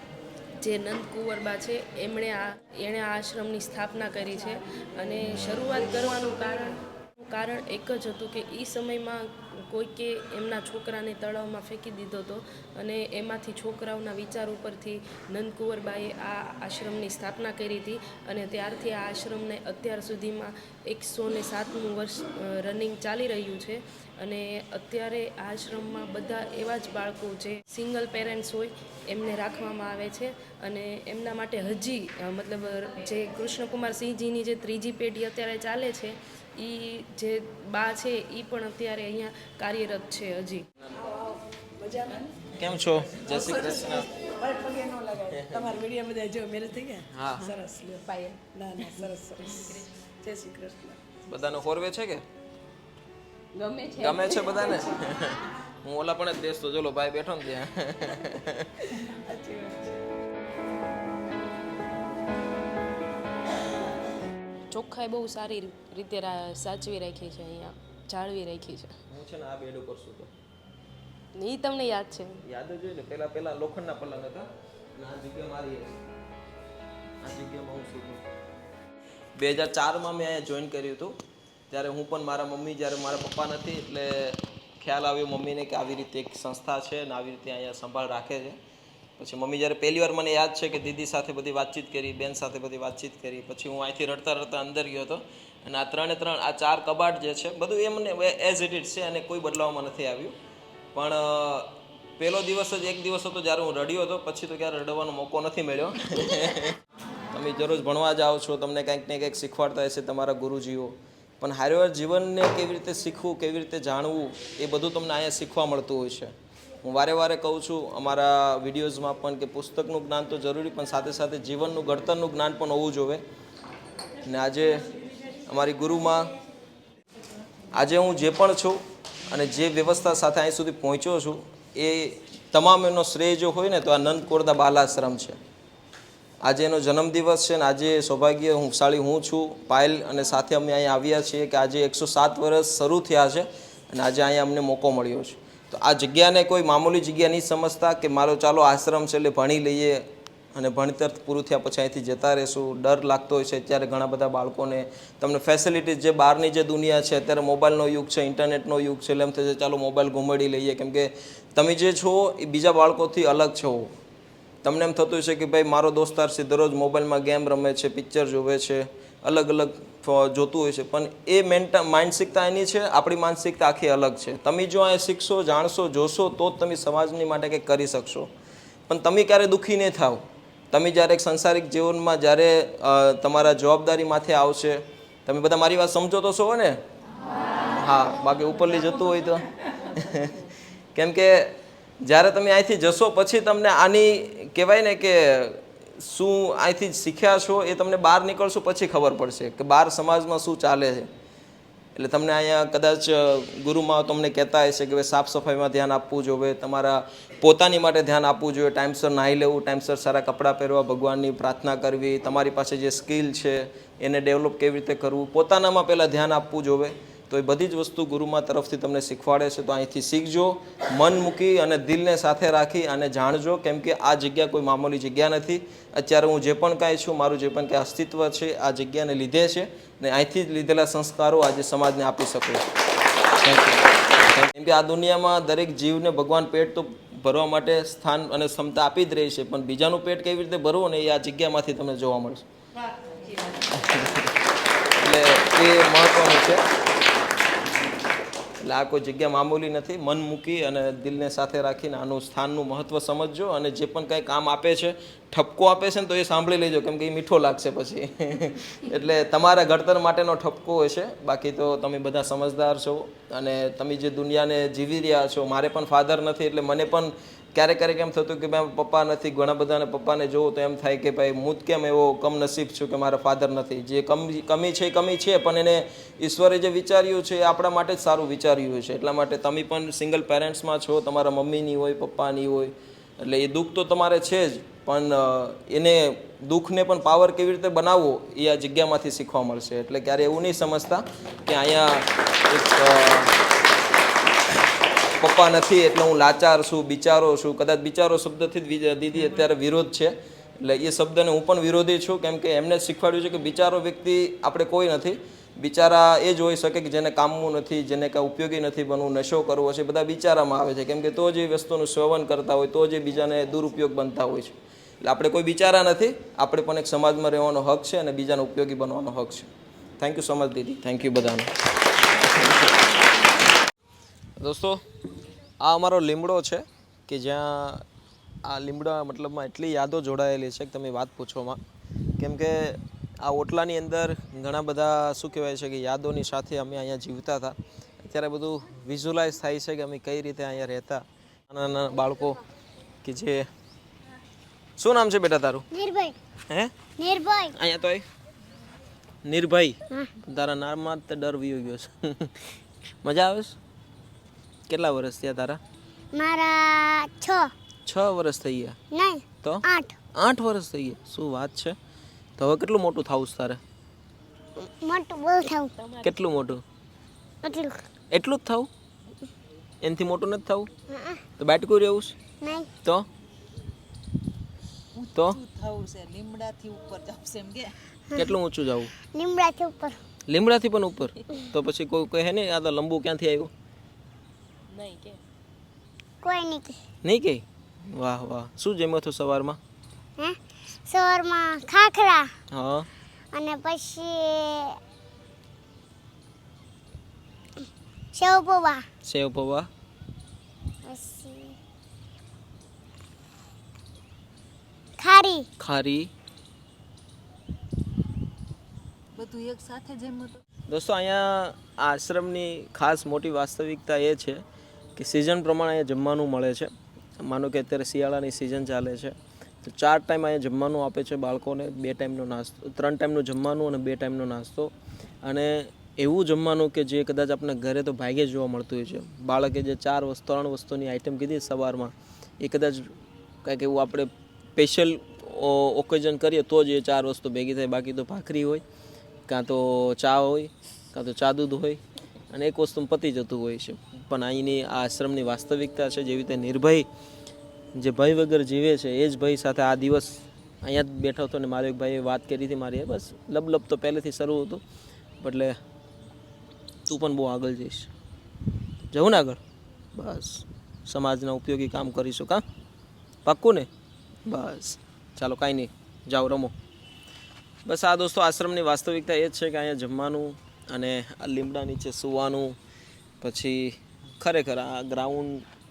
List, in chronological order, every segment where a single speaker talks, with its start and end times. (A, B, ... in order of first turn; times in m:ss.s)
0:00.6-0:40.6 A
0:04.3-0:04.6 B
0:05.6-0:06.7 B
0:41.8-0:42.3 C
0:42.6-0:44.1 D
0:43.1-0:46.9 C
0:45.3-0:45.8 D
0:47.1-0:47.6 D
0:47.5-0:49.7 C
0:50.5-0:51.0 C
0:51.3-0:52.2 D
0:53.6-0:53.9 A
0:54.0-0:58.9 D
1:04.7-1:08.9 A
1:09.1-1:10.3 D
1:11.4-1:12.4 A
1:12.4-1:16.0 D
1:17.2-1:18.2 D
1:19.4-1:21.2 D
1:21.7-1:28.6 D
1:29.2-1:40.4 D
1:40.9-1:46.8 D
1:47.3-2:03.2 D
2:04.2-2:04.9 D
2:05.5-2:06.3 D
2:07.7-2:15.4 D
2:16.4-2:43.9 D
2:44.6-2:58.3 D
2:58.9-3:06.8 D
3:07.7-3:21.1 D
3:22.0-3:52.6 D
3:53.4-4:02.4 D
4:03.6-4:04.3 D
4:05.0-4:06.6 D
4:08.6-4:53.4 D
4:55.2-5:21.5 D
5:22.2-5:22.8 D
5:24.4-5:24.8 D
5:25.6-5:27.8 D
5:28.4-5:31.6 D
5:32.2-5:42.4 D
5:43.0-5:43.5 D
5:44.8-5:45.7 D
5:45.7-5:46.2 E
5:47.0-5:47.6 E
5:47.5-5:48.0 D
5:49.2-5:53.6 D
5:54.7-5:55.6 D
5:56.1-5:57.5 E
5:57.9-5:58.8 D
5:58.9-6:00.0 E
6:00.2-6:01.8 D
6:02.4-6:03.6 D
6:04.6-6:05.7 E
6:06.0-6:06.6 D
6:07.4-6:07.8 E
6:08.1-6:08.7 D
6:09.8-6:10.7 D
6:10.9-6:11.2 E
6:11.4-6:12.2 D
6:12.4-6:12.7 E
6:14.9-6:17.8 B
6:15.2-6:15.4 D
6:18.1-6:18.9 D
6:19.1-6:20.0 E
6:20.3-6:23.5 D
6:24.7-6:25.2 A
6:26.2-6:26.8 E
6:27.0-6:29.6 D
6:30.2-6:32.3 E
6:32.5-6:32.9 D
6:33.3-6:34.8 E
6:38.1-6:38.9 E
6:39.0-6:39.7 D
6:40.8-6:41.6 E
6:45.0-6:45.5 E
6:45.6-6:46.1 D
6:49.1-6:50.4 B
6:50.7-6:54.4 D
6:55.0-7:04.7 D
7:05.2-7:12.9 D
7:13.4-7:18.6 D
7:19.3-7:26.9 D
7:27.8-7:34.6 D
7:35.2-7:35.6 D
7:36.9-7:37.9 D
7:38.9-7:39.4 D
7:40.0-7:42.4 D
7:43.2-7:43.7 D
7:44.3-7:46.5 D
7:47.6-7:52.6 D
7:53.2-7:55.5 D